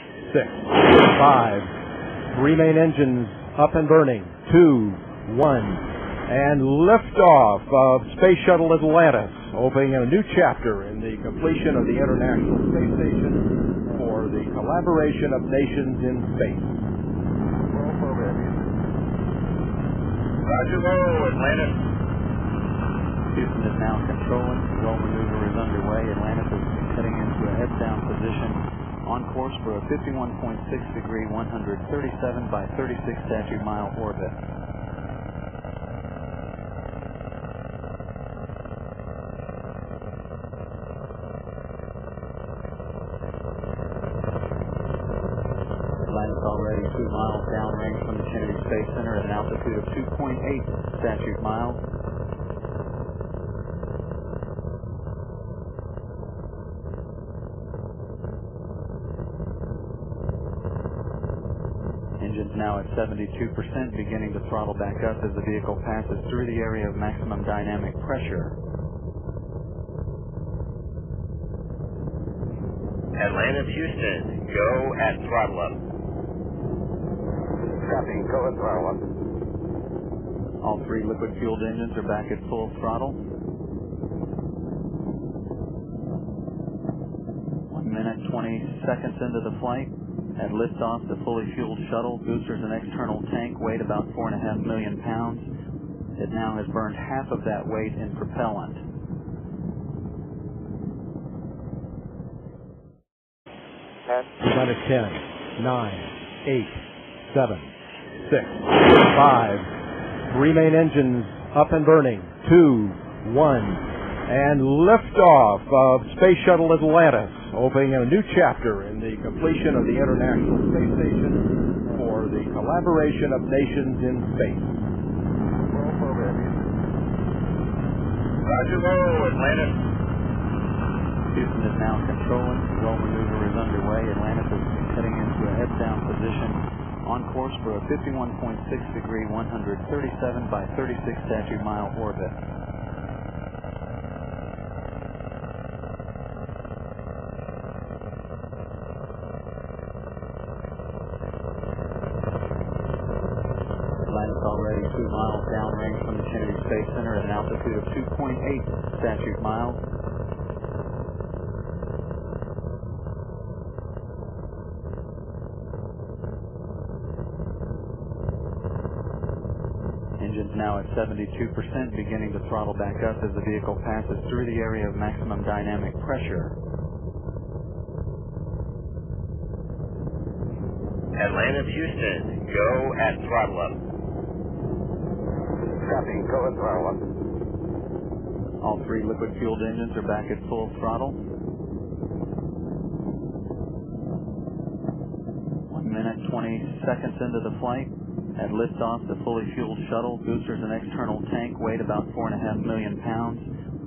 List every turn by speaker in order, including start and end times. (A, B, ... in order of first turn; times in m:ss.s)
0:00.2-0:01.7 A
0:02.3-0:16.7 A
0:17.7-0:18.7 B
0:20.4-0:21.8 C
0:23.3-0:34.4 D
0:46.1-0:51.8 D
1:02.2-1:08.5 D
1:13.2-1:15.8 C
1:17.8-1:19.0 B
1:20.6-1:23.2 D
1:27.7-1:35.5 D
1:36.2-1:38.8 D
1:44.4-1:49.7 A
1:50.3-2:04.7 A
2:05.7-2:06.7 B
2:08.4-2:09.8 C
2:11.3-2:22.4 D
2:34.1-2:39.8 D
2:50.2-2:56.5 D
3:01.2-3:03.8 C
3:05.7-3:07.0 B
3:08.6-3:11.2 D
3:15.7-3:23.5 D